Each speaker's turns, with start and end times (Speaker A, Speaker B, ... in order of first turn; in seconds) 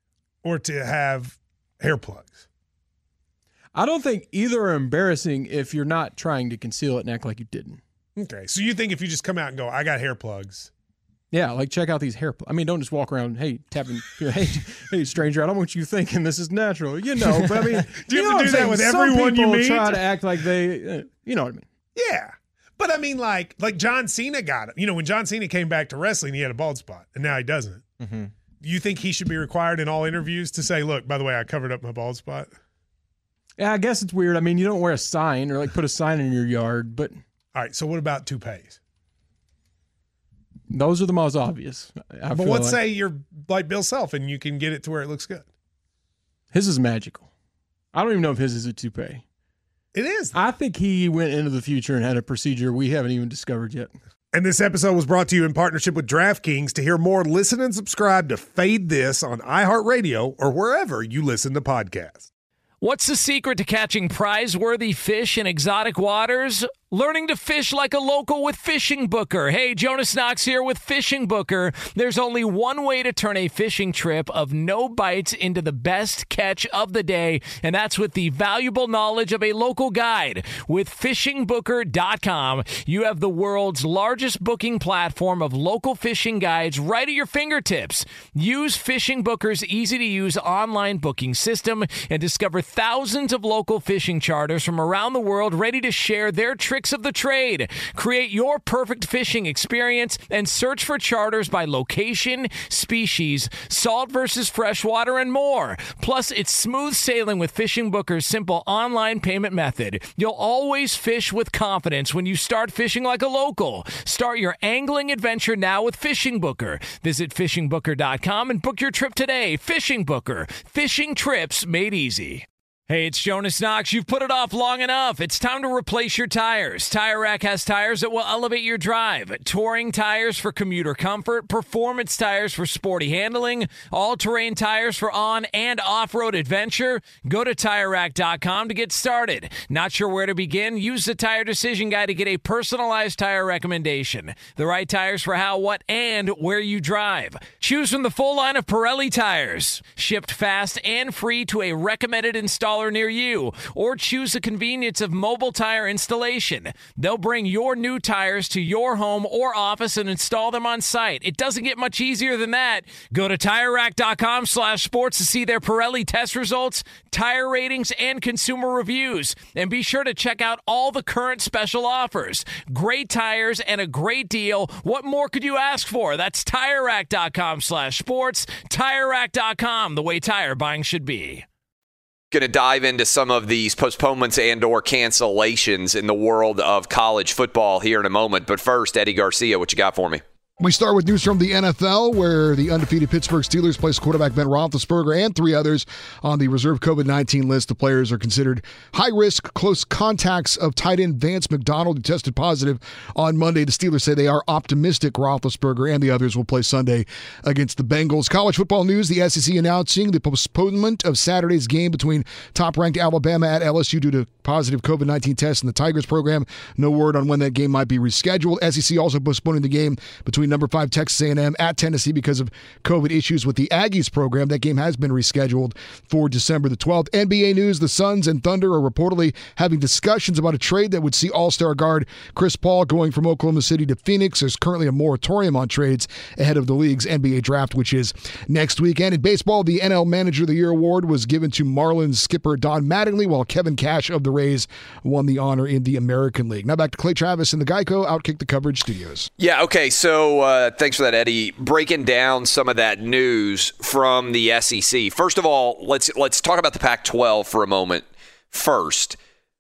Speaker A: 0.4-2.5, 8.2-10.7, 17.3-20.2, 21.9-27.9, 28.6-32.5, 37.5-38.8, 42.3-45.5, 49.9-50.4, 54.3-62.3
Speaker B: 3.8-7.8, 11.3-21.7, 28.0-28.3, 33.6-37.2, 40.7-42.8, 46.5-47.3, 47.9-49.2, 50.3-53.9
Speaker C: 62.8-181.5
Speaker D: 182.3-190.2, 249.4-259.2
Speaker E: 190.6-249.3